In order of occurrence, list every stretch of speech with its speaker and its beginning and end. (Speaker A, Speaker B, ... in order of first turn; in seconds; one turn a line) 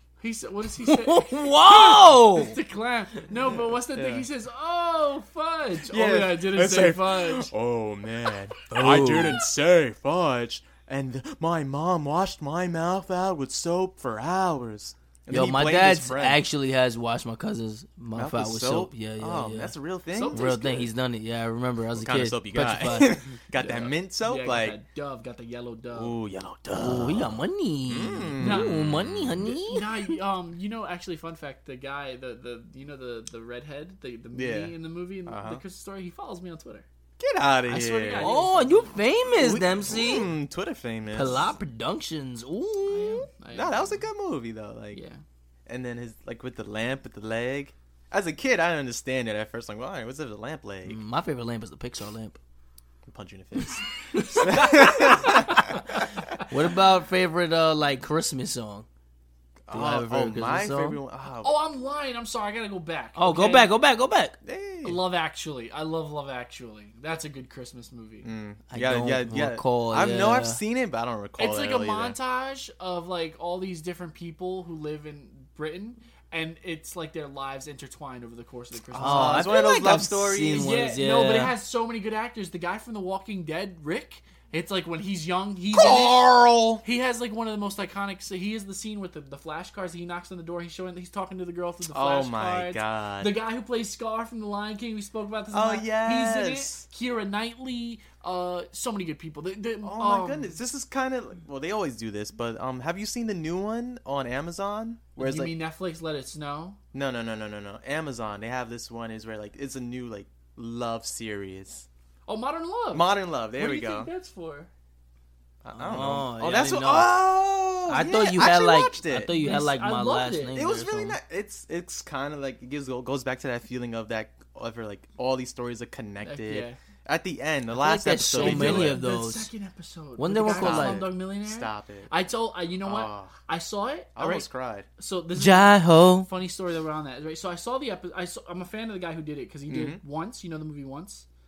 Speaker A: 0.2-7.5
Speaker B: 0.8-2.6
Speaker C: 3.5-4.2
Speaker C: 5.9-16.4
Speaker B: 8.7-9.4
Speaker B: 15.3-19.7
Speaker C: 18.2-20.4
Speaker A: 20.1-20.9
Speaker B: 20.3-23.2
Speaker C: 21.9-24.8
Speaker A: 23.5-26.2
Speaker C: 25.9-29.6
Speaker B: 26.8-30.1
Speaker A: 28.4-28.8
Speaker A: 29.5-36.9
Speaker C: 34.3-35.6
Speaker C: 37.2-38.4
Speaker A: 37.7-39.0
Speaker B: 38.2-40.3
Speaker C: 39.4-41.5
Speaker B: 41.1-43.3
Speaker A: 42.9-44.1
Speaker C: 43.5-45.0
Speaker A: 44.9-45.2
Speaker C: 45.7-51.0
Speaker B: 50.9-52.4
Speaker C: 53.1-56.1
Speaker B: 54.1-55.7
Speaker A: 54.2-55.8
Speaker B: 56.4-58.9
Speaker C: 59.7-61.6
Speaker B: 59.7-61.0
Speaker A: 61.4-63.7
Speaker B: 63.2-64.4
Speaker C: 64.4-65.0
Speaker A: 64.8-68.3
Speaker C: 68.2-72.2
Speaker B: 68.7-70.6
Speaker A: 71.4-79.5
Speaker B: 79.0-81.5
Speaker C: 79.0-80.7
Speaker A: 80.5-86.3
Speaker C: 85.7-86.8
Speaker A: 86.8-100.6
Speaker C: 91.9-93.3
Speaker C: 95.5-96.9
Speaker C: 99.8-105.5
Speaker A: 105.2-106.8
Speaker C: 106.9-111.9
Speaker A: 112.3-114.7
Speaker C: 112.9-114.1
Speaker C: 115.6-119.3
Speaker B: 115.8-117.1
Speaker B: 117.9-121.2
Speaker A: 119.3-120.6
Speaker C: 120.5-129.0
Speaker A: 126.2-126.8
Speaker B: 127.7-129.5
Speaker A: 128.2-141.3
Speaker B: 130.2-131.1
Speaker C: 130.5-132.1
Speaker C: 132.8-133.3
Speaker C: 134.2-134.9
Speaker B: 135.3-136.3
Speaker C: 139.7-140.0